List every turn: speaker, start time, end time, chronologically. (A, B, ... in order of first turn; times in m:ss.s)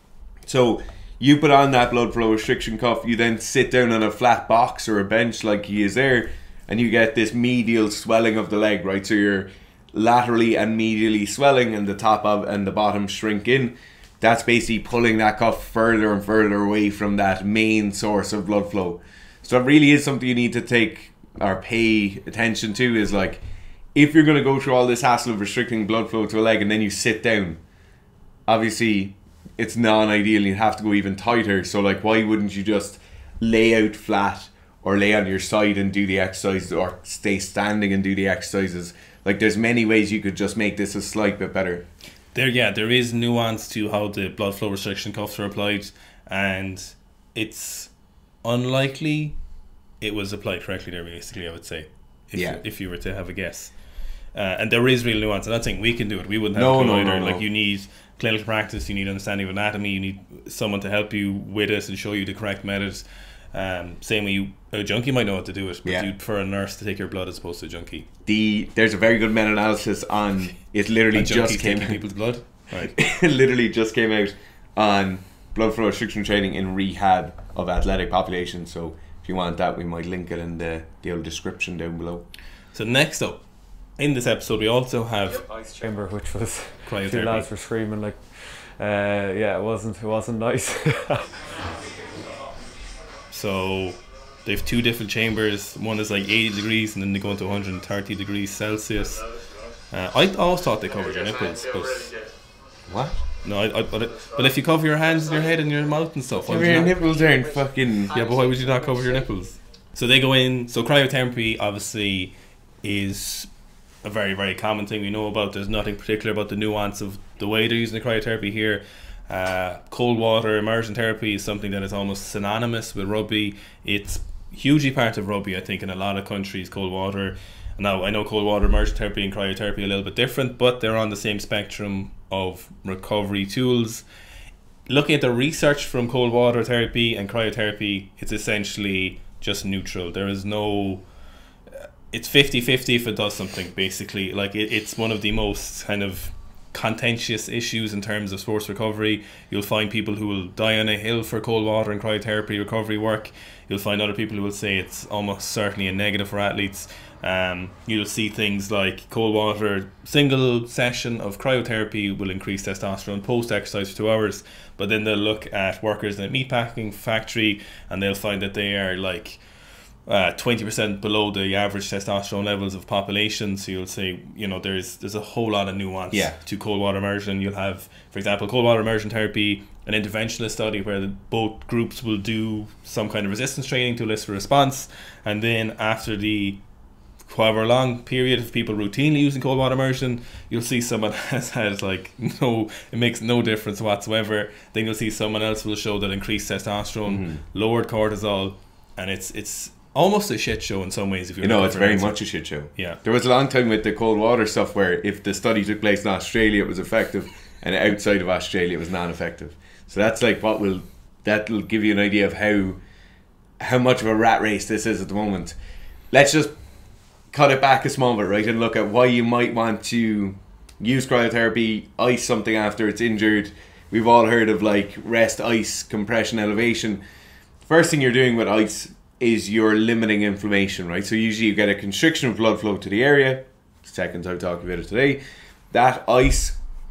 0:00.4-0:23.4 A
0:23.9-0:27.6 A
0:28.5-0:41.8 A
0:42.3-0:47.9 B
0:48.4-0:49.4 B
0:50.0-0:53.8 B
0:52.3-0:52.6 A
0:54.3-1:08.1 B
0:56.5-0:57.4 A
1:08.2-1:12.0 A
1:11.1-1:12.9 B
1:12.9-1:22.2 A
1:22.7-1:23.4 B
1:24.0-1:25.4 B
1:25.6-1:28.3 C
1:26.9-1:27.5 B
1:28.8-1:31.2 C
1:33.3-1:39.3 B
1:39.9-1:42.1 B
1:42.8-1:43.2 A
1:43.4-1:47.0 B
1:46.4-1:48.1 A
1:48.1-1:52.3 B
1:52.8-1:53.5 B
1:54.0-2:14.0 B
2:14.9-2:21.0 B
2:22.1-2:49.4 B
2:50.0-3:06.6 B
2:56.1-2:56.4 A
3:07.3-3:22.2 B
3:17.1-3:17.4 A
3:21.4-3:32.8 A
3:22.7-3:23.0 B
3:33.6-3:35.5 A
3:36.1-3:36.5 A
3:37.3-3:47.0 A
3:47.6-3:55.2 A
3:55.7-3:56.6 A